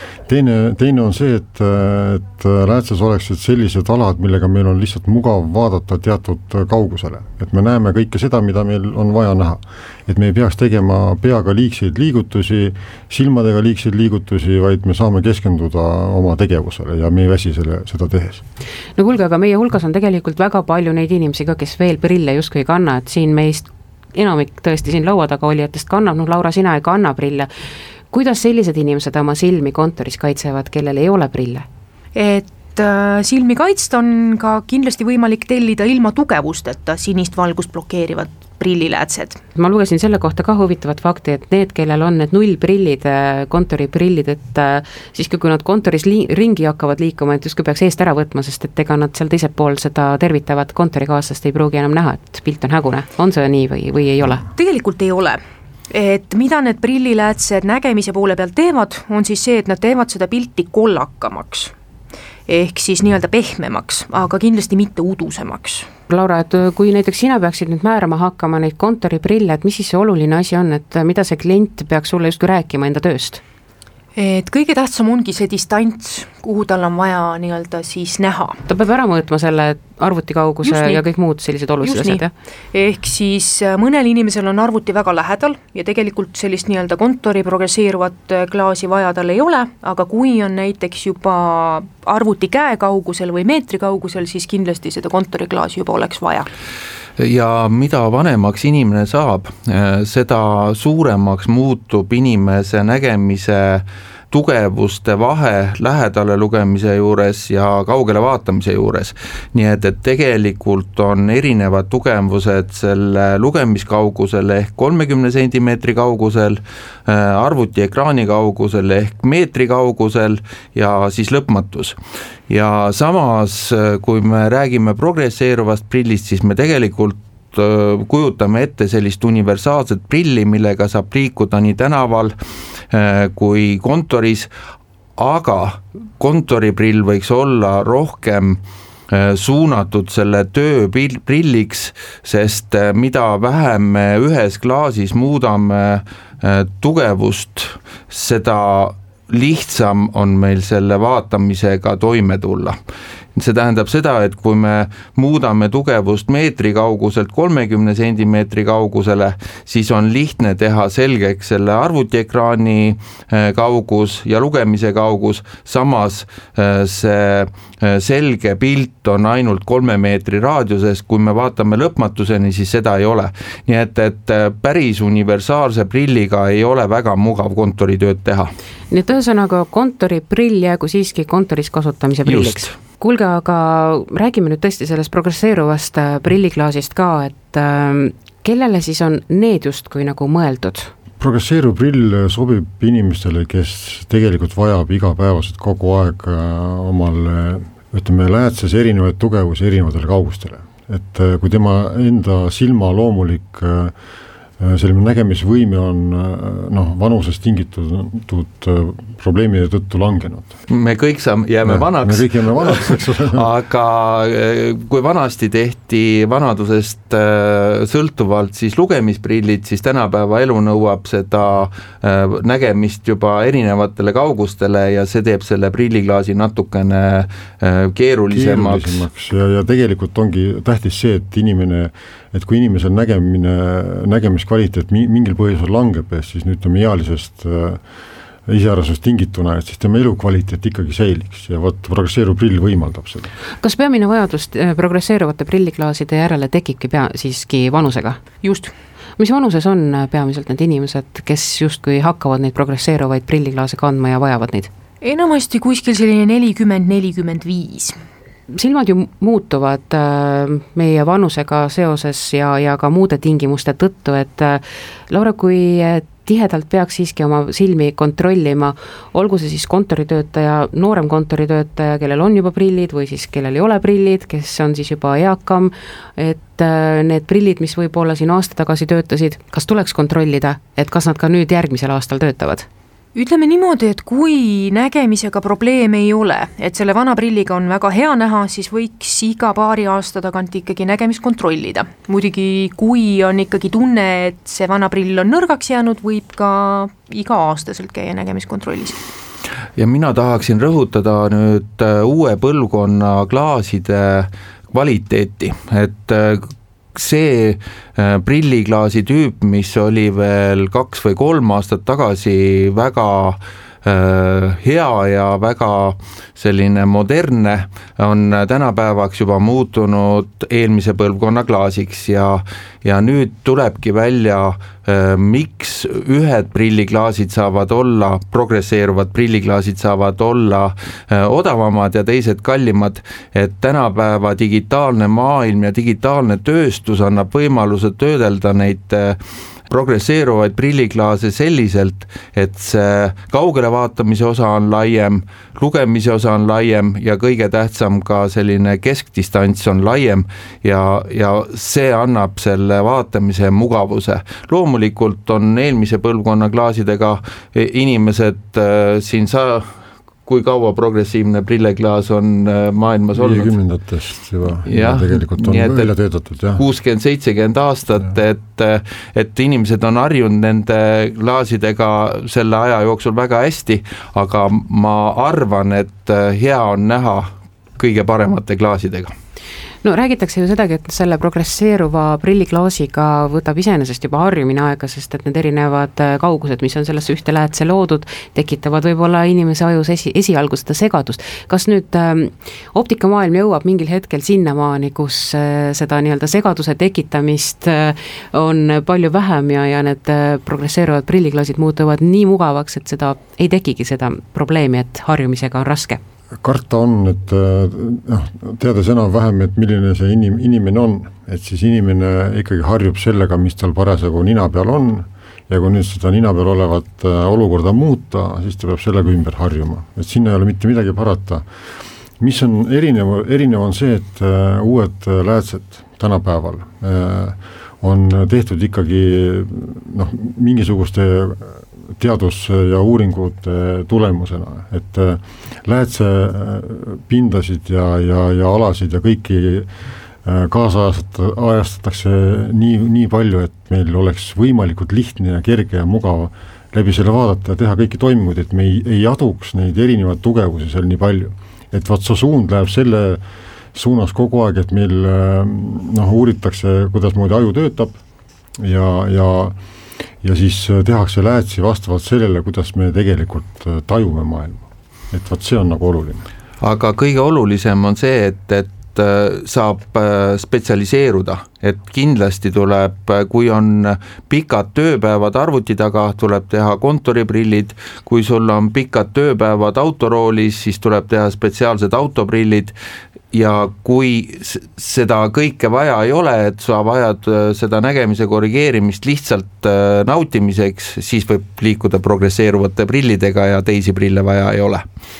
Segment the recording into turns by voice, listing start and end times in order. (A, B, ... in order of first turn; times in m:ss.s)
0:00.3-0:18.4 A
0:19.0-0:27.5 B
0:28.1-0:31.7 B
0:32.2-0:39.4 C
0:39.5-0:54.4 B
0:54.5-0:55.4 C
0:55.9-1:01.7 C
1:02.5-1:05.9 C
1:06.1-1:13.4 B
1:14.2-1:18.6 C
1:18.7-1:22.3 B
1:20.6-1:21.0 C
1:21.8-1:22.2 C
1:22.7-1:36.5 C
1:37.2-2:02.0 D
2:02.5-2:12.3 D
2:12.9-2:14.5 D
2:15.2-2:32.8 D
2:33.4-2:58.5 D
2:58.9-3:10.9 B
3:02.2-3:02.7 D
3:11.2-3:23.9 A
3:24.6-3:30.6 A
3:30.7-3:49.0 D
3:31.6-3:33.5 A
3:48.3-3:57.8 A
3:58.5-4:03.3 A
4:03.6-4:08.2 B
4:08.4-4:08.7 C
4:09.2-4:14.7 B
4:15.0-4:18.0 C
4:18.5-4:42.7 B
4:43.1-4:59.0 C
4:59.8-5:39.2 D
5:39.7-5:59.7 D
6:00.2-6:03.6 D
6:03.1-6:06.6 A
6:04.7-6:05.9 D
6:06.6-6:19.1 D
6:19.8-6:46.0 B
6:46.4-7:01.4 A
7:02.2-7:19.7 A
7:20.2-7:33.2 A
7:33.7-7:38.0 A
7:38.6-7:39.6 A
7:40.2-7:46.2 A
7:46.6-8:02.8 D
8:03.3-8:14.8 D